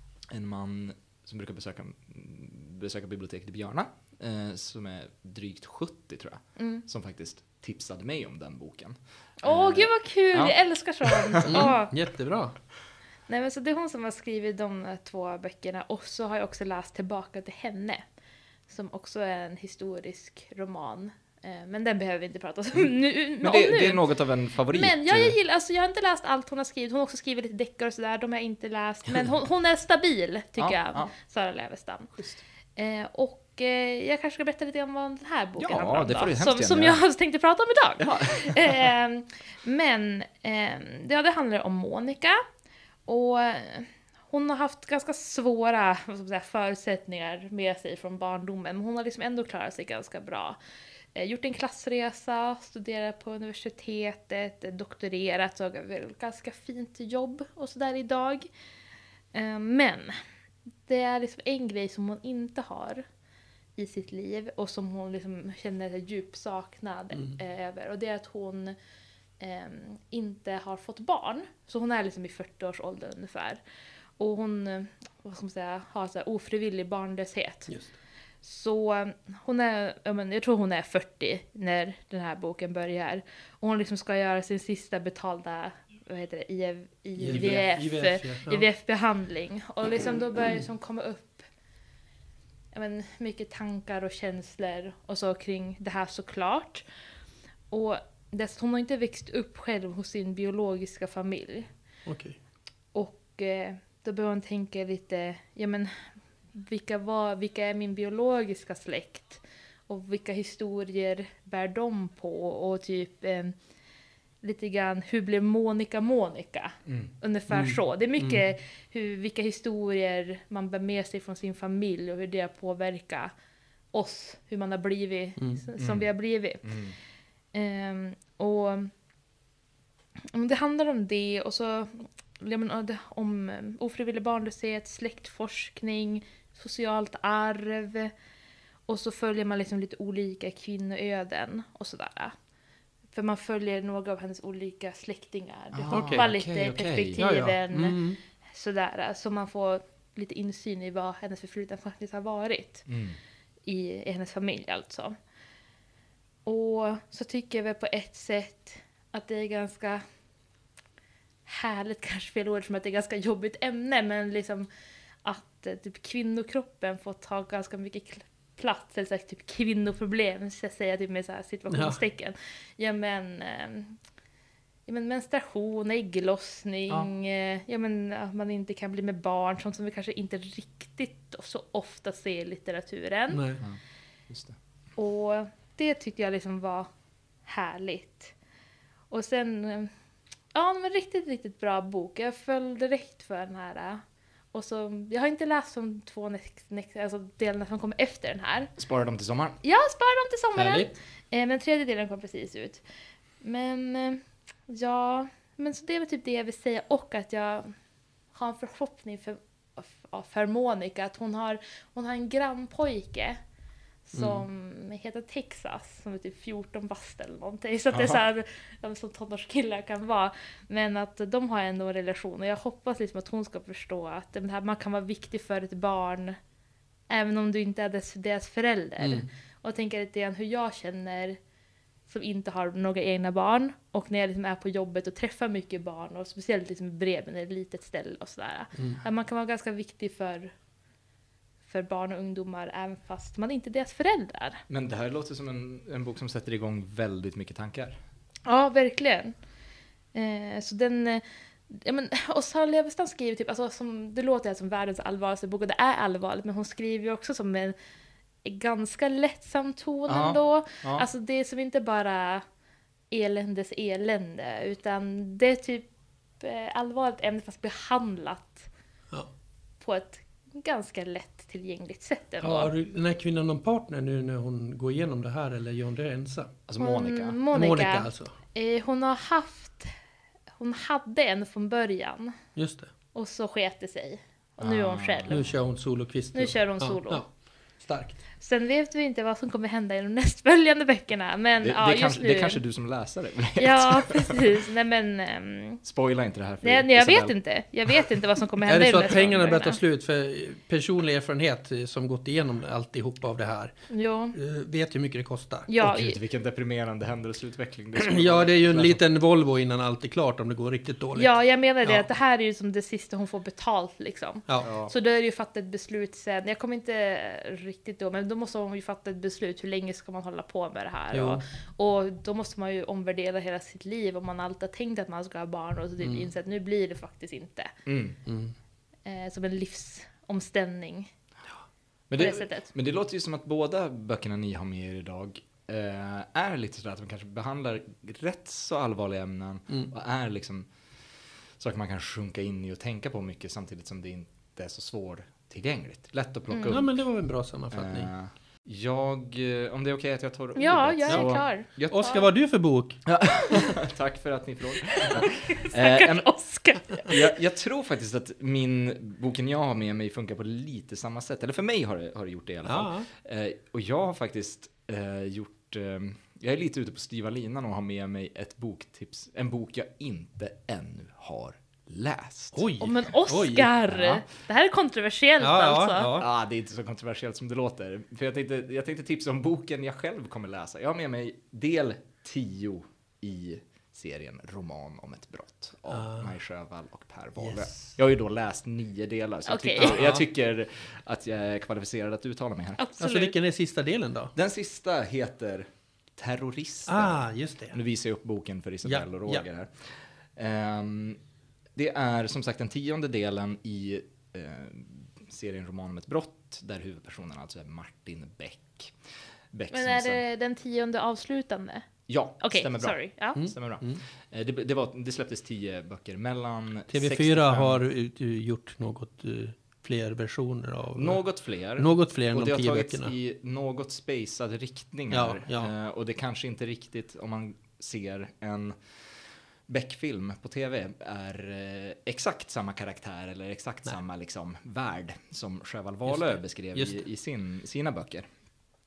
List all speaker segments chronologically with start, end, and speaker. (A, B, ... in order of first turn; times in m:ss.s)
0:00.3-0:11.7 A
0:06.6-0:06.8 B
0:09.4-0:11.9 B
0:11.5-0:12.6 C
0:13.3-0:18.0 B
0:18.7-0:24.1 B
0:23.4-0:25.4 A
0:24.7-0:32.1 B
0:30.6-0:31.1 A
0:32.1-0:32.4 A
0:32.8-0:42.4 B
0:35.6-0:37.0 A
0:38.0-0:38.9 A
0:43.1-0:50.6 B
0:51.2-0:58.5 B
0:59.3-1:00.2 B
1:00.9-1:03.0 B
1:03.8-1:08.8 B
1:09.4-1:13.6 B
1:14.2-1:17.7 B
1:17.7-1:18.0 C
1:18.4-1:31.5 B
1:27.2-1:28.7 C
1:32.7-1:36.8 B
1:37.7-1:41.7 B
1:42.1-1:42.4 C
1:42.9-1:53.6 B
1:54.4-2:03.3 B
1:56.9-1:57.1 A
1:57.5-1:58.4 C
2:03.9-2:06.8 B
2:05.4-2:05.6 C
2:05.8-2:06.1 A
2:06.6-2:07.0 A
2:07.5-2:08.9 B
2:10.3-2:18.1 B
2:18.9-2:22.4 B
2:23.1-2:32.9 B
2:25.7-2:27.2 A
2:25.9-2:26.3 C
2:27.2-2:28.2 C
2:32.9-2:33.2 A
2:33.7-2:35.2 B
2:36.5-2:40.0 B
2:41.5-2:44.7 B
2:45.2-2:54.0 B
2:51.7-2:52.0 C
2:54.9-3:03.4 B
3:03.3-3:03.6 C
3:03.6-3:04.6 A
3:05.0-3:06.9 B
3:07.5-3:08.3 B
3:09.1-3:09.9 B
3:10.5-3:18.7 B
3:18.8-3:19.6 A
3:19.6-3:22.8 B
3:20.6-3:20.9 C
3:23.4-3:27.7 B
3:28.3-3:33.4 B
3:34.1-3:46.4 B
3:34.2-3:34.4 C
3:37.9-3:38.2 A
3:47.1-3:51.4 B
3:49.0-3:49.3 C
3:52.1-4:00.5 B
3:58.8-3:59.0 C
4:01.7-4:04.6 B
4:04.7-4:08.0 A
4:08.5-4:09.4 B
4:10.1-4:17.8 B
4:18.4-4:22.4 B
4:20.1-4:21.1 A
4:23.1-4:25.9 B
4:26.4-4:28.7 B
4:29.8-4:32.7 B
4:32.4-4:36.5 C
4:36.7-4:37.4 A
4:36.8-4:39.9 B
4:37.5-4:38.3 C
4:40.6-4:42.4 B
4:42.6-4:42.9 C
4:43.1-4:45.5 B
4:44.6-4:45.5 A
4:45.3-4:48.2 C
4:46.3-4:47.3 B
4:48.4-4:52.6 B
4:51.6-4:54.6 A
4:53.6-4:55.8 B
4:55.8-4:57.4 A
4:56.6-4:59.8 B
4:58.7-5:03.8 C
5:03.9-5:04.4 B
5:04.3-5:05.7 C
5:05.7-5:06.2 B
5:05.8-5:09.0 A
5:08.0-5:12.1 C
5:11.2-5:27.7 B
5:14.6-5:14.9 A
5:21.1-5:21.4 C
5:26.0-5:26.3 C
5:27.9-5:28.2 A
5:28.3-5:28.6 C
5:29.0-5:31.1 B
5:32.1-5:47.0 A
5:32.2-5:32.7 B
5:46.5-5:46.8 B
5:46.7-5:48.1 C
5:47.7-5:52.1 A
5:50.6-5:52.2 B
5:51.1-5:53.1 C
5:53.0-5:56.4 A
5:55.0-5:57.3 B
5:57.0-6:12.7 A
6:02.6-6:03.1 C
6:12.5-6:13.7 C
6:12.8-6:16.1 B
6:13.9-6:14.2 A
6:15.4-6:16.3 C
6:16.2-6:32.8 A
6:25.9-6:26.4 C
6:27.4-6:28.0 C
6:29.5-6:30.0 B
6:29.8-6:30.3 C
6:32.8-6:33.4 B
6:33.0-6:34.3 C
6:34.4-6:41.2 A
6:36.9-6:37.8 C
6:38.8-6:39.4 C
6:41.8-6:50.2 A
6:49.7-6:51.9 B
6:52.1-6:57.8 A
6:52.4-6:53.4 B
6:53.4-6:54.0 C
6:56.9-7:03.1 C
7:01.0-7:18.3 A
7:05.1-7:05.7 C
7:16.1-7:17.0 C